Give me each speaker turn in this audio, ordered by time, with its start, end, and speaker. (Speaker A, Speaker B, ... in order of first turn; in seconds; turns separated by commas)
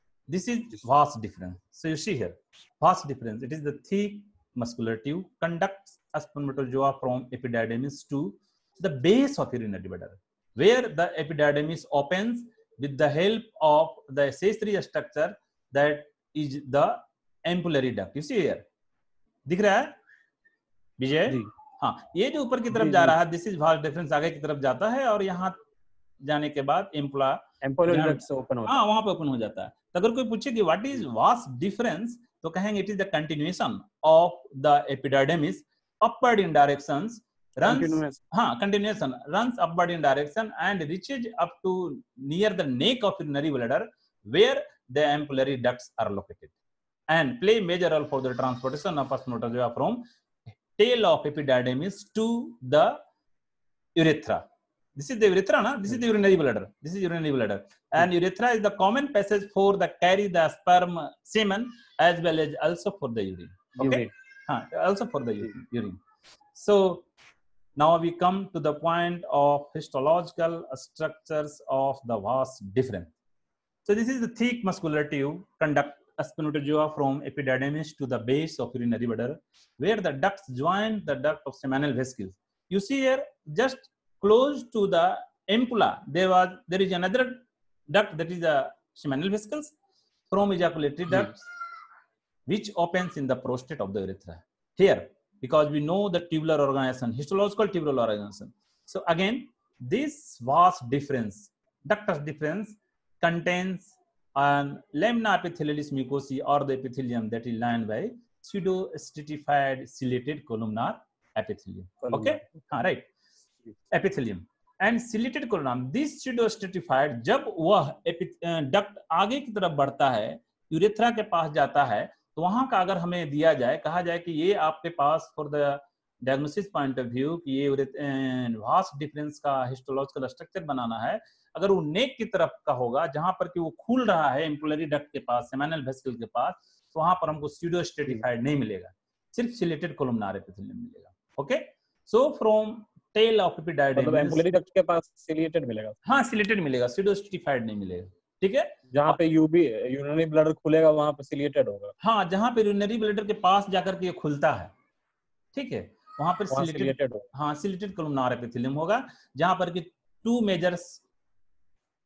Speaker A: 0.3-18.6, Speaker A: 19.5-19.9, Speaker A: 21.0-25.6, Speaker B: 22.7-23.2, Speaker A: 26.2-46.5, Speaker B: 27.6-28.8, Speaker B: 37.6-38.2, Speaker A: 47.1-50.0, Speaker A: 50.7-53.0, Speaker A: 54.0-54.4, Speaker A: 55.0-66.0, Speaker B: 63.8-64.1, Speaker A: 66.5-67.1, Speaker A: 67.8-73.1, Speaker A: 73.8-89.7, Speaker A: 90.3-91.5, Speaker A: 92.5-113.1, Speaker B: 112.0-112.7, Speaker A: 113.9-144.4, Speaker B: 143.9-146.0, Speaker A: 146.0-149.2, Speaker B: 148.9-151.9, Speaker A: 152.0-154.7, Speaker A: 155.5-161.0, Speaker B: 156.5-157.3